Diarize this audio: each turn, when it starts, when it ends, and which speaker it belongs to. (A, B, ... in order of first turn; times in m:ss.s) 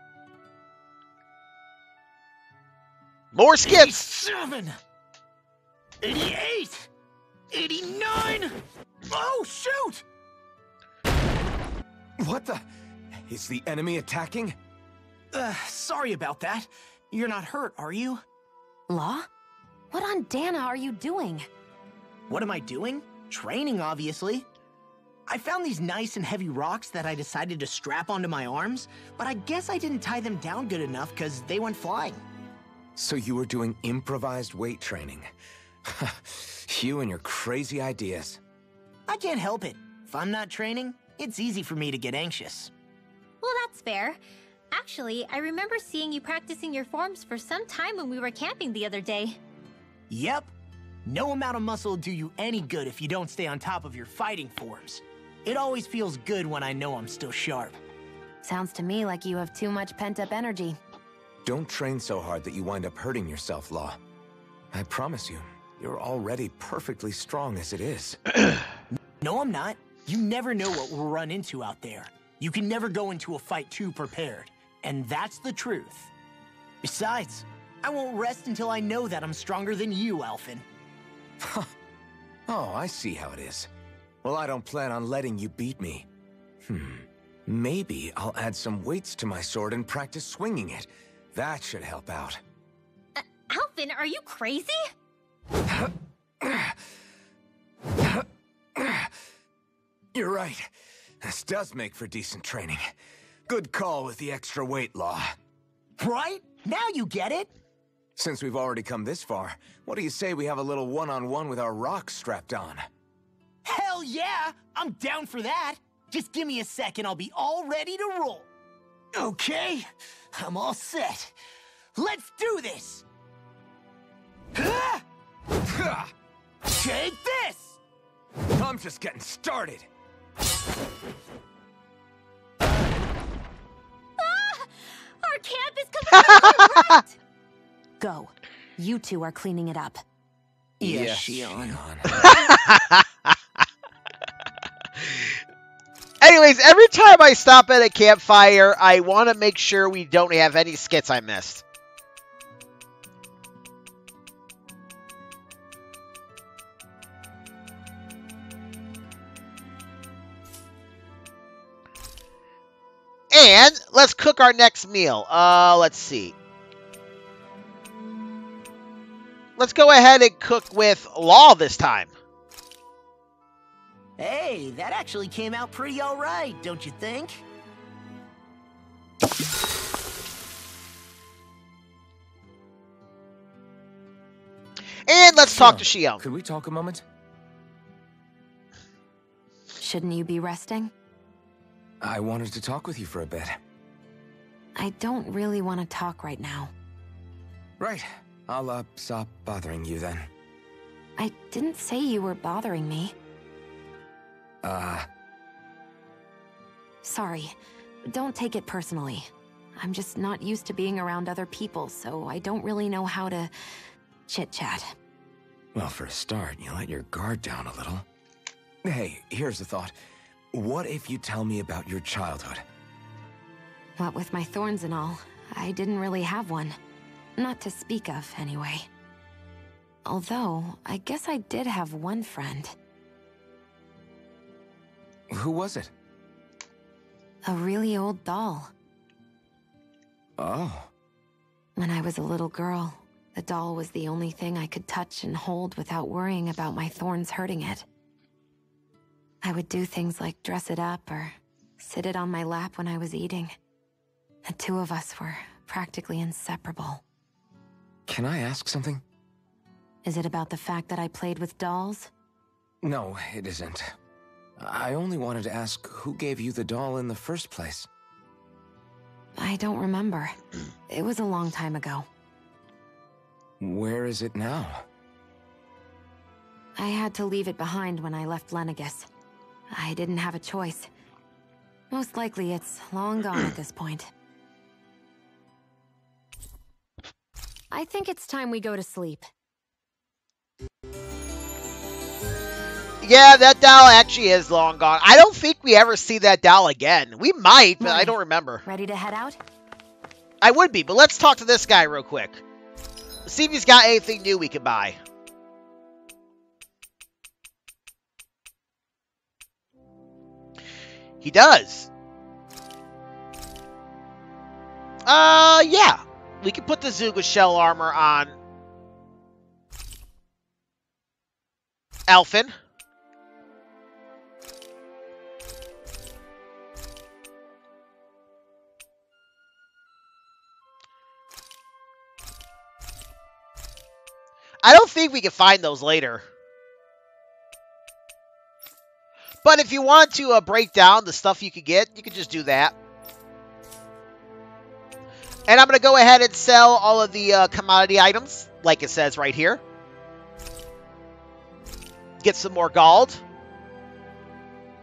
0:03.3-0:04.0 A
0:03.6-0:04.8 B
0:06.0-0:06.9 B
0:07.5-0:10.0 B
0:12.2-0:12.6 C
0:13.3-0:14.6 C
0:15.3-0:18.2 B
0:18.9-0:19.3 D
0:19.9-0:21.5 D
0:22.3-0:24.4 B
0:25.3-0:32.2 B
0:33.0-0:35.3 C
0:35.8-0:38.4 C
0:39.1-0:42.7 B
0:43.4-0:44.2 E
0:44.7-0:49.4 E
0:50.1-0:50.5 B
0:51.0-0:57.8 B
0:58.4-1:00.8 D
1:01.4-1:04.0 C
1:04.7-1:08.2 C
1:08.9-1:16.1 B
1:16.8-1:20.6 B
1:21.4-1:21.7 C
1:22.5-1:23.7 C
1:24.2-1:26.1 C
1:26.6-1:32.4 C
1:33.2-1:34.8 E
1:35.7-1:36.8 C
1:38.0-1:39.1 C
1:40.1-1:40.7 C
1:41.2-1:42.8 C
1:43.5-1:45.4 C
1:46.0-1:47.5 B
1:48.2-1:52.8 C
1:53.6-1:58.5 B
1:59.1-2:01.3 B
2:01.9-2:03.0 B
2:04.5-2:05.0 B
2:05.6-2:06.1 C
2:06.6-2:07.8 B
2:08.5-2:09.9 C
2:14.2-2:17.2 E
2:16.1-2:16.9 A
2:18.0-2:20.0 D
2:20.8-2:21.8 B
2:20.8-2:22.2 C
2:22.1-2:23.3 A
2:25.0-2:25.3 A
2:26.2-2:31.6 A
2:43.3-2:46.3 A
2:49.6-2:52.1 A
2:54.2-2:57.4 B
3:05.1-3:06.2 A
3:05.5-3:07.0 C
3:09.8-3:10.9 D
3:12.0-3:13.6 C
3:14.8-3:16.7 D
3:17.8-3:20.3 C
3:21.2-3:23.1 D
3:24.6-3:25.1 C
3:27.0-3:27.6 D
3:28.1-3:33.5 D
3:34.3-3:34.9 D
3:35.7-3:38.0 C
3:38.8-3:39.9 C
3:40.5-3:42.6 C
3:44.0-3:46.8 D
3:47.4-3:48.9 D
3:50.0-3:52.7 D
3:55.3-3:55.9 C
3:57.4-3:58.7 D
4:00.4-4:00.9 C
4:01.8-4:07.8 D
4:09.4-4:13.5 D
4:14.4-4:17.0 D
4:18.1-4:19.0 C
4:20.0-4:22.1 D
4:22.8-4:23.9 C
4:24.6-4:27.9 C
4:29.4-4:30.4 D
4:30.9-4:32.1 D
4:33.6-4:34.8 C
4:36.8-4:39.1 D
4:39.7-4:40.9 D
4:41.9-4:44.1 D
4:47.7-4:49.3 D
4:53.0-4:58.6 A
4:57.8-4:59.4 D
5:00.4-5:02.4 A
5:03.2-5:05.0 A
5:11.2-5:11.9 A
5:15.0-5:18.3 A
5:22.1-5:22.5 A
5:34.6-5:36.2 A
5:39.4-5:42.7 A
5:45.5-5:49.6 A
5:52.2-5:53.2 A